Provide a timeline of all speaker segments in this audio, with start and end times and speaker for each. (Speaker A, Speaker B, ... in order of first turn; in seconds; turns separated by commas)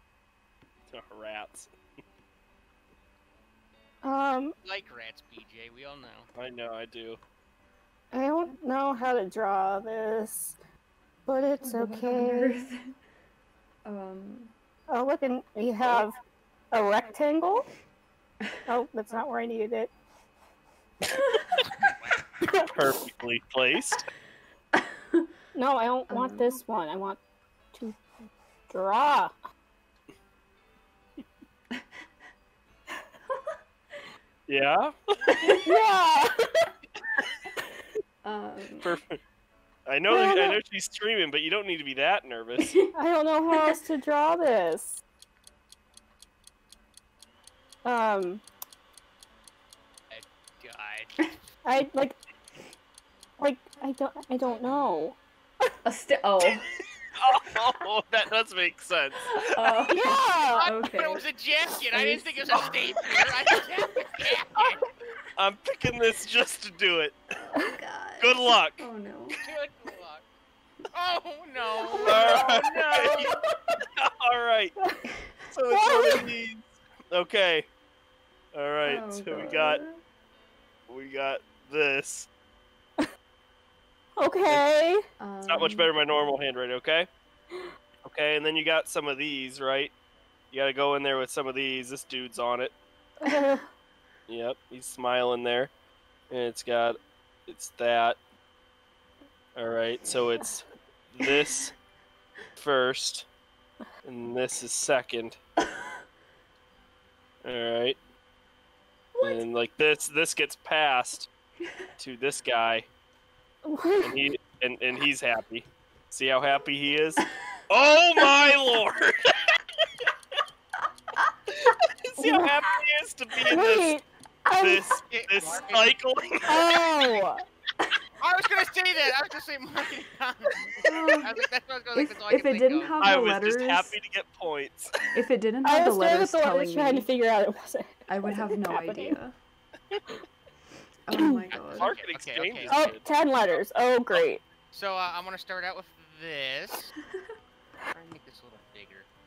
Speaker A: 0.9-1.7, Speaker B: 4.0-4.5, Speaker C: 4.6-6.3, Speaker A: 6.3-7.2, Speaker B: 8.1-10.6, Speaker B: 11.2-12.7, Speaker D: 11.6-12.9, Speaker D: 13.8-14.5, Speaker B: 14.9-16.1, Speaker B: 16.7-17.7, Speaker B: 18.7-19.9, Speaker D: 21.1-21.4, Speaker C: 21.6-22.2, Speaker B: 22.4-22.7, Speaker A: 22.7-24.1, Speaker D: 24.8-25.3, Speaker B: 25.5-27.2, Speaker D: 26.1-26.6, Speaker B: 27.7-28.0, Speaker B: 28.7-29.3, Speaker D: 33.3-33.6, Speaker A: 34.5-35.2, Speaker D: 35.3-35.7, Speaker B: 35.5-36.4, Speaker D: 38.2-38.9, Speaker A: 38.8-39.2, Speaker A: 39.9-42.7, Speaker B: 40.1-40.6, Speaker D: 42.6-42.9, Speaker B: 42.9-45.0, Speaker B: 47.8-48.4, Speaker C: 50.1-51.3, Speaker B: 51.6-52.2, Speaker B: 53.4-55.1, Speaker C: 54.6-55.1, Speaker D: 55.8-56.7, Speaker A: 57.1-59.7, Speaker D: 59.3-61.2, Speaker B: 59.9-60.6, Speaker C: 60.5-64.8, Speaker D: 61.9-63.1, Speaker A: 65.4-67.2, Speaker D: 67.3-69.4, Speaker A: 68.2-68.8, Speaker C: 69.4-70.2, Speaker C: 70.9-73.3, Speaker A: 72.0-73.3, Speaker A: 74.0-74.7, Speaker A: 75.5-77.7, Speaker B: 75.7-76.3, Speaker A: 78.5-79.8, Speaker D: 78.8-80.0, Speaker A: 80.9-82.3, Speaker B: 84.2-85.0, Speaker D: 85.2-85.9, Speaker A: 85.5-87.1, Speaker A: 88.0-89.9, Speaker A: 90.5-92.7, Speaker B: 93.2-93.7, Speaker A: 94.3-95.7, Speaker A: 96.3-98.2, Speaker A: 99.5-101.7, Speaker A: 102.6-103.2, Speaker A: 104.0-105.4, Speaker A: 107.4-108.0, Speaker D: 109.2-109.4, Speaker A: 109.2-111.3, Speaker A: 112.0-112.8, Speaker B: 113.6-114.2, Speaker A: 114.0-119.5, Speaker A: 121.6-123.9, Speaker B: 122.2-122.5, Speaker B: 123.5-124.8, Speaker A: 124.6-126.6, Speaker C: 125.1-126.0, Speaker B: 126.4-127.4, Speaker C: 128.2-132.9, Speaker D: 130.8-131.3, Speaker D: 131.9-134.0, Speaker A: 133.0-135.1, Speaker D: 135.1-137.1, Speaker B: 135.6-139.2, Speaker D: 138.1-139.3, Speaker D: 141.1-141.9, Speaker C: 141.5-146.9, Speaker A: 141.8-143.0, Speaker B: 142.7-144.4, Speaker C: 147.9-149.1